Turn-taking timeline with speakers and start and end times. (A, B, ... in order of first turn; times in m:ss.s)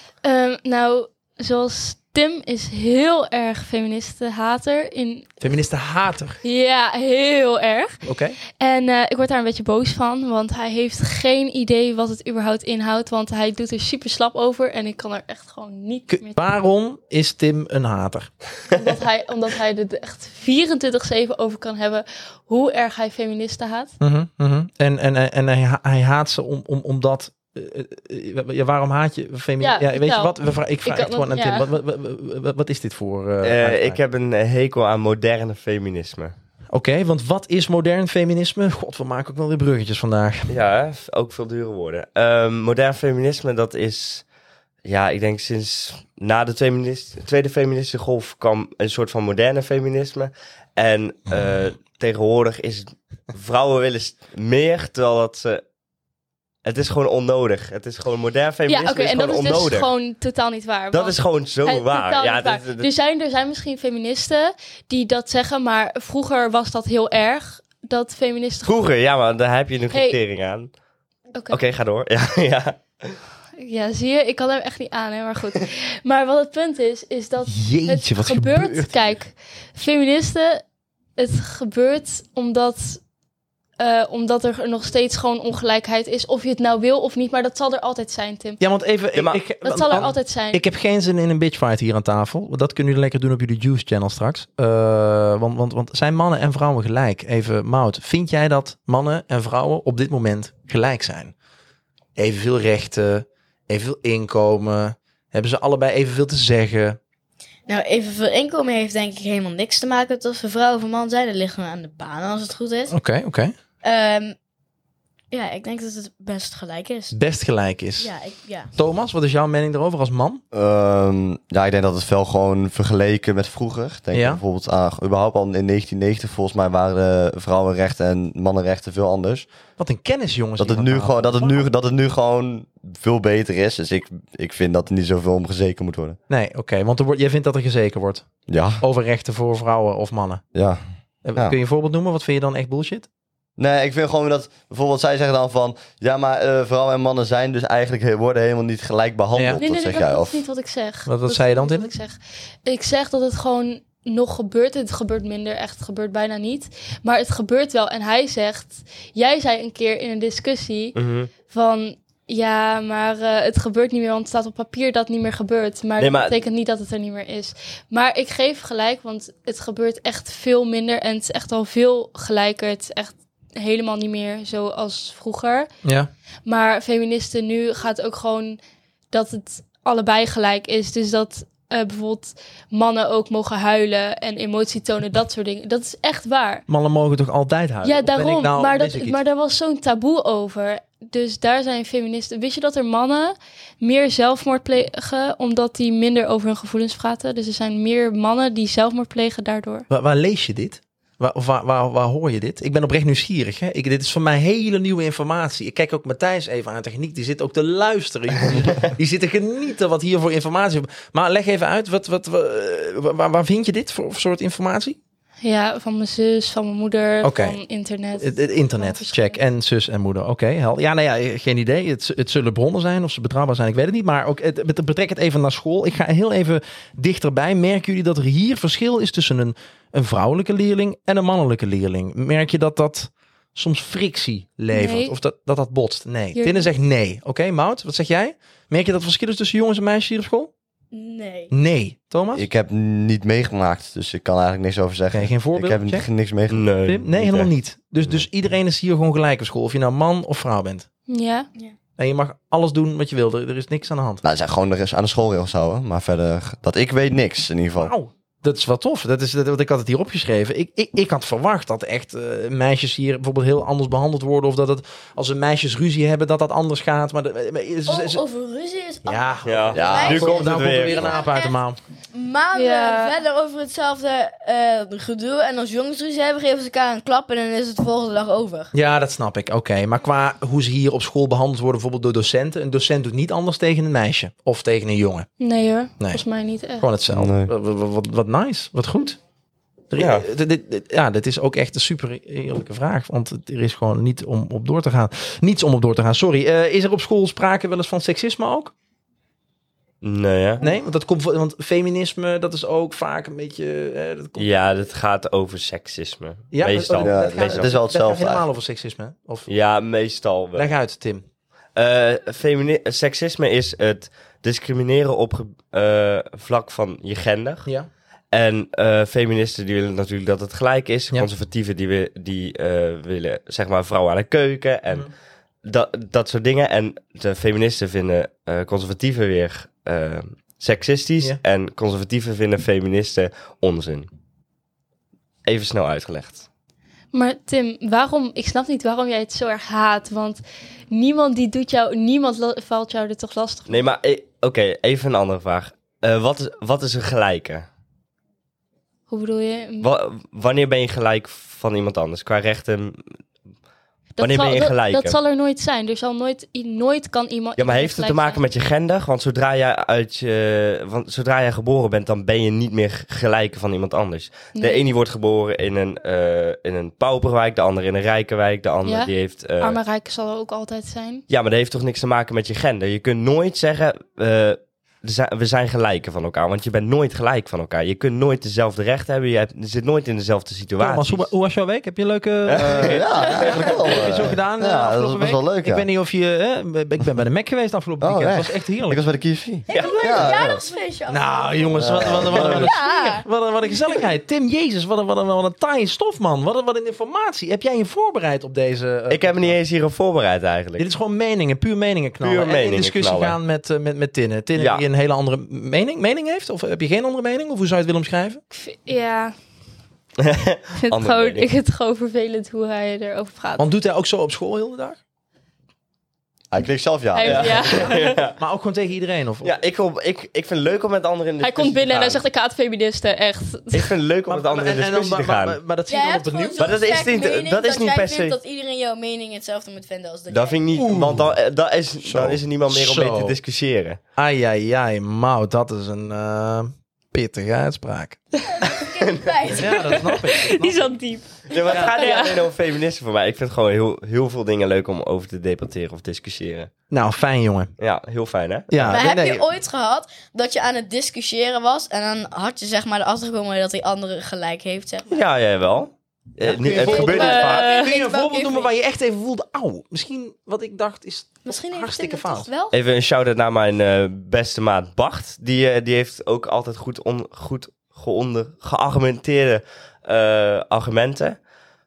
0:00.2-0:05.3 A
0:05.4-0:06.4 B
0:06.4-0:08.0 A
0:08.0-0:08.4 B
0:08.5-0:16.4 A
0:16.1-0:18.3 B
0:18.7-0:23.9 A
0:24.0-0:34.0 B
0:29.6-0:31.7 A
0:33.4-0:36.3 C
0:36.7-0:40.5 B
0:40.5-0:44.2 C
0:44.8-0:55.6 C
0:56.6-0:59.9 C
0:58.7-1:08.8 A
1:00.9-1:02.9 C
1:08.6-1:10.7 C
1:09.9-1:10.2 A
1:11.5-1:13.2 C
1:13.6-1:20.6 A
1:17.5-1:18.9 B
1:21.2-1:23.0 A
1:23.8-1:28.6 A
1:28.6-1:41.3 B
1:29.1-1:30.1 C
1:29.6-1:30.6 A
1:42.2-1:47.0 B
1:47.7-1:52.9 D
1:52.9-1:53.5 B
1:53.8-1:54.3 D
1:55.3-1:57.1 D
1:57.1-1:58.1 B
1:58.0-1:58.7 D
1:58.7-2:00.4 B
2:00.5-2:09.5 E
2:04.1-2:04.4 B
2:09.8-2:11.7 B
2:10.6-2:16.2 E
2:16.3-2:18.3 B
2:18.5-2:18.8 E
2:18.8-2:20.4 B
2:20.5-2:20.8 E
2:21.2-2:23.1 B
2:23.6-2:30.4 E
2:29.3-2:29.6 B
2:29.6-2:55.7 A
2:31.0-2:31.9 B
2:41.0-2:41.3 C
2:46.0-2:46.4 C
2:55.8-2:56.1 B
2:56.4-2:58.6 A
2:59.1-3:06.6 A
3:06.7-3:09.2 B
3:07.8-3:19.8 A
3:19.9-3:35.0 B
3:35.4-3:39.4 A
3:37.2-3:37.6 B
3:38.2-4:00.5 B
3:54.7-3:55.2 A
3:56.3-3:56.7 A
4:00.9-4:01.5 D
4:01.5-4:02.5 B
4:02.3-4:06.7 E
4:05.1-4:06.1 B
4:06.5-4:07.5 C
4:06.8-4:10.9 B
4:11.1-4:11.5 A
4:12.0-4:14.2 B
4:14.2-4:17.9 E
4:17.8-4:28.2 B
4:27.9-4:31.6 D
4:29.0-4:31.8 B
4:29.4-4:31.1 C
4:29.7-4:30.4 E
4:32.1-4:38.7 D
4:32.5-4:33.2 A
4:38.7-4:45.3 B
4:45.4-4:46.9 A
4:46.0-4:46.2 B
4:46.8-4:49.2 B
4:47.1-4:47.5 E
4:49.9-4:58.7 B
4:50.0-4:50.2 C
5:00.0-5:00.6 C
5:00.6-5:04.5 B
5:04.4-5:07.7 C
5:06.5-5:09.5 B
5:07.0-5:08.4 E
5:09.5-5:10.7 C
5:10.5-5:11.2 B
5:11.8-5:17.7 C
5:18.3-5:25.1 C
5:25.6-5:34.1 C
5:35.4-5:36.4 C
5:37.1-5:43.8 A
5:43.7-5:47.6 C
5:49.1-5:49.9 A
5:49.8-5:53.0 C
5:54.2-5:58.4 A
5:54.2-5:55.2 C
5:57.6-6:09.8 C
6:04.5-6:04.9 A
6:08.8-6:11.2 A
6:11.3-6:21.3 C
6:20.8-6:29.0 B
6:22.5-6:23.8 C
6:22.5-6:25.8 E
6:28.0-6:30.6 E
6:29.7-6:33.2 D
6:29.7-6:30.3 C
6:31.1-6:39.6 B
6:31.8-6:32.8 E
6:39.1-6:40.9 C
6:40.8-6:48.4 B
6:42.2-6:43.4 C
6:44.6-6:44.8 C
6:48.5-6:49.3 A
6:50.2-6:51.5 C
6:50.8-6:53.7 A
6:53.6-6:55.0 B
6:56.5-6:57.8 E
6:57.1-6:58.2 A
6:57.2-6:58.4 C
6:57.8-6:59.5 B
6:59.4-7:02.2 C
7:01.4-7:03.9 A
7:03.7-7:05.6 C
7:04.3-7:06.7 B
7:05.9-7:10.6 D
7:06.6-7:08.4 C
7:10.3-7:14.0 C
7:10.7-7:11.3 B
7:12.0-7:12.4 E
7:12.7-7:13.4 B
7:14.2-7:18.2 B
7:18.4-7:20.0 D
7:19.0-7:19.4 C
7:19.5-7:20.9 B
7:19.7-7:22.5 A
7:21.5-7:26.7 C
7:21.7-7:22.0 B
7:26.9-7:27.7 B
7:27.8-7:29.0 C
7:28.7-7:29.4 B
7:28.9-7:35.2 D
7:35.1-7:37.7 C
7:36.4-7:42.5 B
7:36.7-7:38.7 D
7:37.0-7:37.9 A
7:41.4-7:42.8 D
7:42.7-7:51.4 C